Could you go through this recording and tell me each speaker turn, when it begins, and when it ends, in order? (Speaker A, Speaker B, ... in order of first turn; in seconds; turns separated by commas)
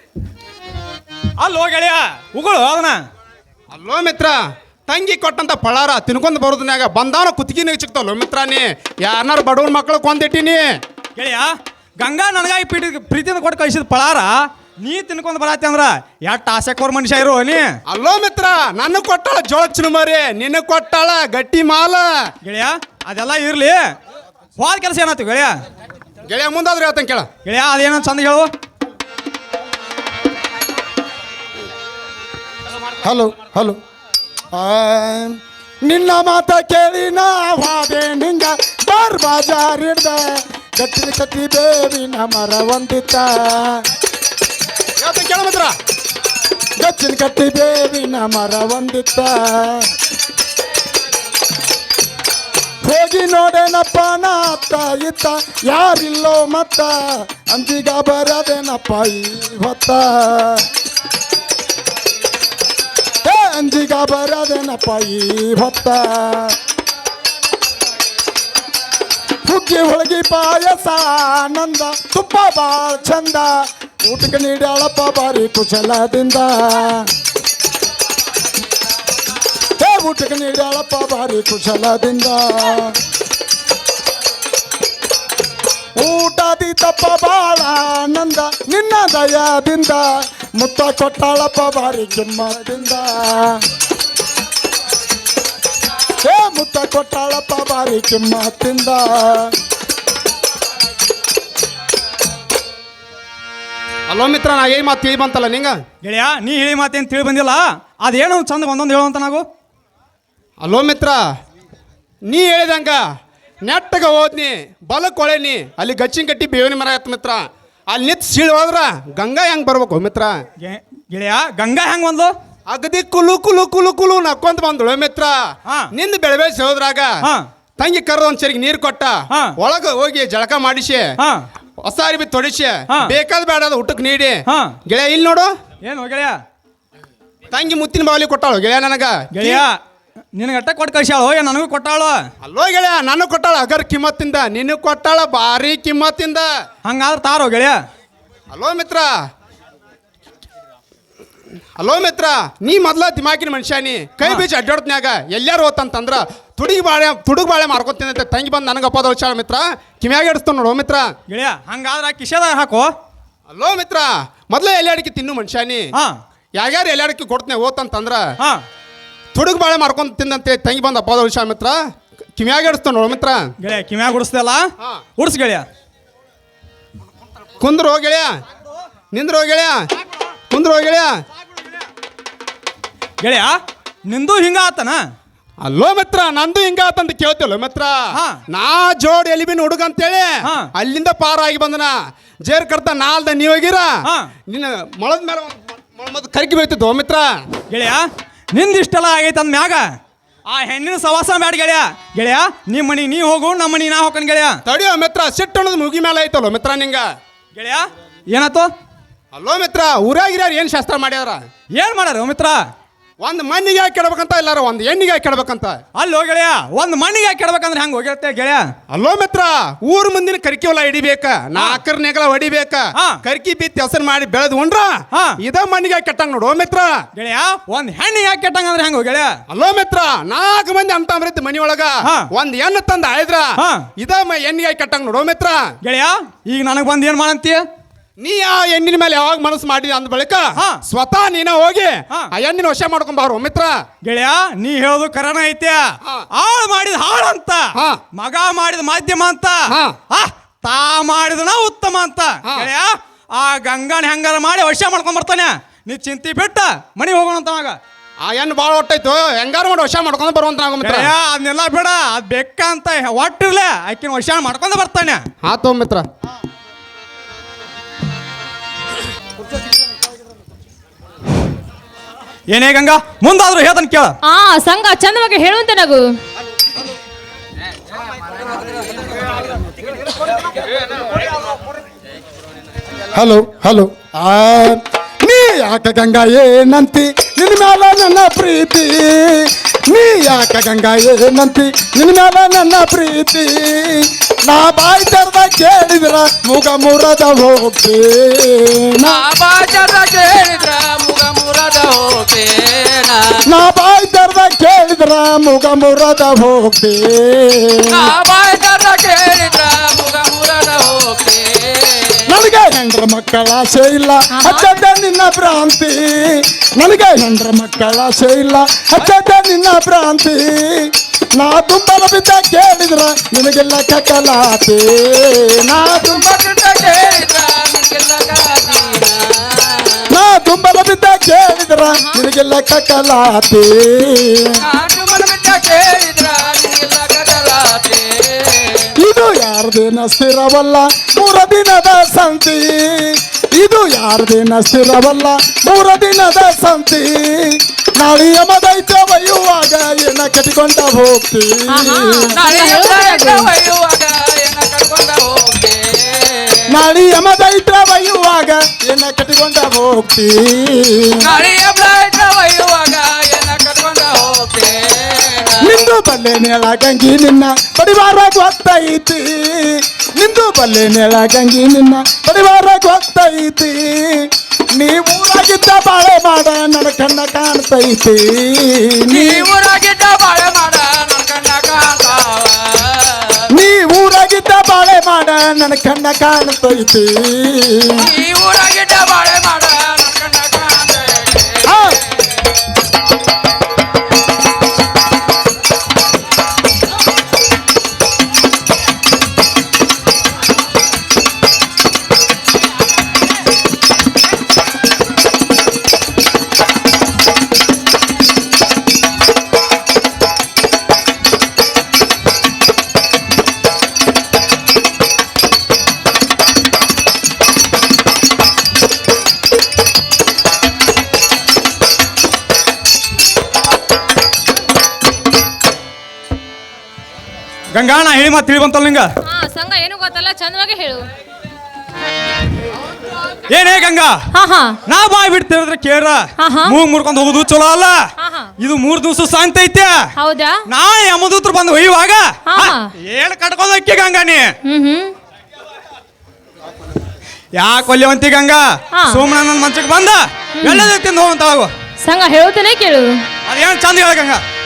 Speaker A: 1.4-3.0, Speaker B: 3.7-10.7, Speaker A: 11.2-17.7, Speaker B: 17.9-22.3, Speaker A: 22.4-23.8, Speaker A: 24.6-25.6, Speaker B: 26.3-27.3, Speaker A: 27.4-28.5, Speaker C: 33.0-33.8, Speaker C: 34.5-43.8, Speaker B: 45.0-45.7, Speaker C: 46.8-49.9, Speaker C: 52.8-60.7, Speaker C: 63.2-66.6, Speaker C: 69.4-77.1, Speaker C: 79.8-83.0, Speaker C: 86.0-93.6, Speaker C: 96.2-99.6, Speaker B: 104.1-105.8, Speaker A: 106.0-109.4, Speaker B: 110.6-111.2, Speaker B: 112.3-113.0, Speaker B: 113.6-120.4, Speaker A: 120.6-122.3, Speaker B: 122.7-127.2, Speaker B: 127.8-131.2, Speaker A: 129.3-129.6, Speaker A: 131.2-131.5, Speaker B: 131.8-135.5, Speaker A: 134.5-134.8, Speaker A: 135.8-136.4, Speaker B: 137.5-139.6, Speaker A: 139.3-139.8, Speaker A: 140.3-142.2, Speaker B: 142.4-146.5, Speaker A: 146.8-147.8, Speaker B: 148.5-149.1, Speaker B: 151.8-161.2, Speaker A: 161.3-162.9, Speaker B: 163.5-165.9, Speaker B: 166.6-168.3, Speaker B: 169.3-171.8, Speaker B: 172.4-173.5, Speaker A: 173.6-175.7, Speaker B: 177.6-178.4, Speaker B: 179.1-179.9, Speaker B: 180.5-181.2, Speaker A: 183.2-183.6, Speaker A: 184.1-185.0, Speaker B: 185.6-191.9, Speaker A: 188.1-188.4, Speaker A: 190.4-190.7, Speaker B: 192.5-194.0, Speaker B: 194.5-197.4, Speaker A: 197.7-199.9, Speaker A: 200.5-204.6, Speaker B: 204.7-207.1, Speaker A: 207.5-208.7, Speaker B: 209.3-211.4, Speaker A: 211.8-212.6, Speaker B: 213.2-215.8, Speaker A: 216.0-218.7, Speaker B: 218.9-227.0, Speaker A: 221.6-221.8, Speaker A: 223.0-223.2, Speaker A: 225.1-225.4, Speaker A: 227.2-229.3, Speaker B: 229.5-235.8, Speaker A: 232.0-232.3, Speaker A: 233.6-233.9, Speaker A: 235.8-237.7, Speaker B: 238.2-243.8, Speaker A: 244.0-245.8, Speaker A: 246.3-257.8, Speaker B: 247.8-248.0, Speaker B: 258.2-261.1, Speaker A: 260.8-265.2, Speaker B: 265.4-266.1, Speaker A: 272.5-274.2, Speaker D: 274.2-276.1, Speaker C: 283.1-299.2, Speaker E: 299.0-303.4, Speaker C: 303.5-308.1, Speaker E: 307.9-312.3, Speaker C: 312.3-326.2, Speaker D: 314.3-314.8, Speaker E: 326.0-330.1, Speaker C: 330.1-334.6, Speaker D: 331.9-332.2, Speaker E: 334.6-338.9, Speaker C: 339.0-352.3, Speaker D: 351.7-353.5, Speaker E: 352.4-356.7, Speaker C: 356.7-361.3, Speaker E: 361.2-365.7, Speaker C: 365.6-379.4, Speaker E: 379.1-383.5, Speaker C: 383.5-388.1, Speaker E: 388.0-391.7, Speaker C: 391.6-392.0, Speaker A: 427.7-429.1, Speaker D: 429.2-431.1, Speaker A: 433.5-434.2, Speaker D: 434.3-434.8, Speaker A: 434.9-438.0, Speaker D: 436.4-436.8, Speaker D: 438.2-438.5, Speaker A: 438.6-440.1, Speaker D: 440.2-440.6, Speaker A: 440.7-444.5, Speaker D: 442.5-442.9, Speaker D: 444.6-445.1, Speaker A: 447.6-451.7, Speaker D: 448.9-449.2, Speaker D: 450.6-450.9, Speaker D: 452.0-453.2, Speaker A: 453.5-454.4